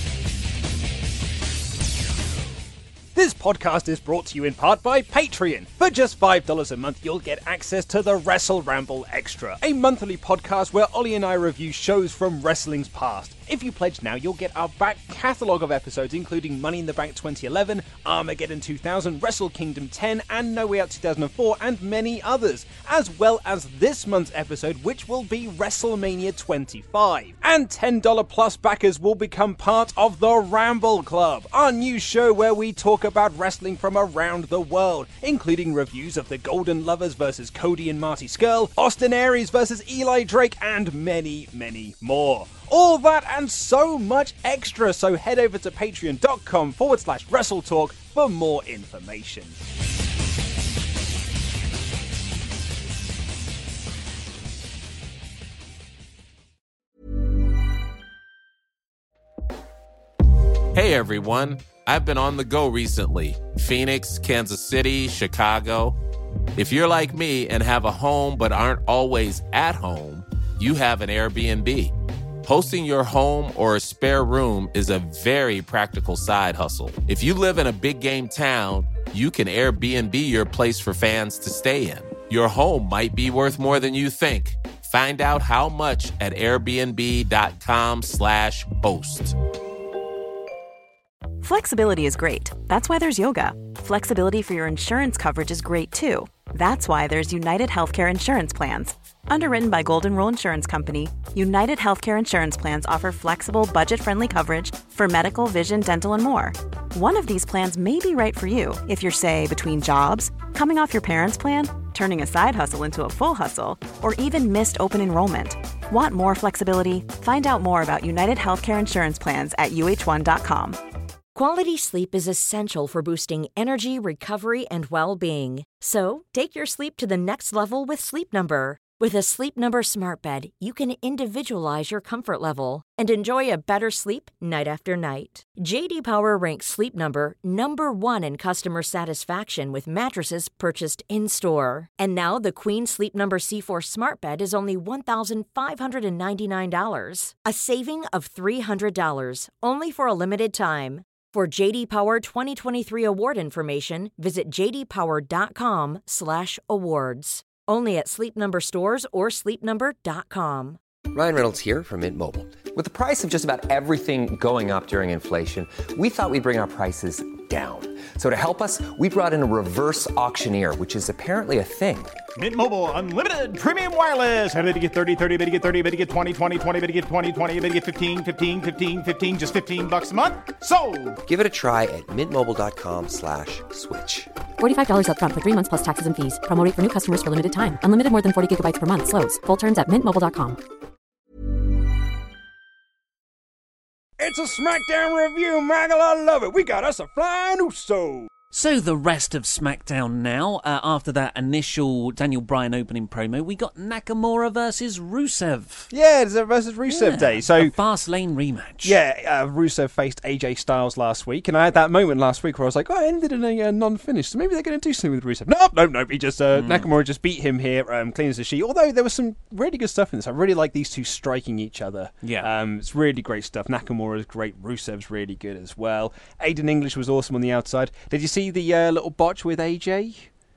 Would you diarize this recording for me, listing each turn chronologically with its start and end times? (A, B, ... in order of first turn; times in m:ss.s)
0:03.1-0:49.6 A
1:00.7-1:06.0 B
1:06.5-1:11.9 B
1:12.4-1:29.4 B
1:31.4-2:00.8 C
2:01.3-2:40.8 D
2:41.1-2:52.2 E
2:52.4-3:01.2 F
3:01.2-3:04.3 E
3:04.6-3:10.6 G
3:14.2-3:18.3 A
3:18.5-3:25.9 H
3:25.9-3:27.7 A
3:26.9-3:29.0 H
3:28.8-3:50.3 A
3:36.5-3:36.9 H
3:42.2-3:42.5 H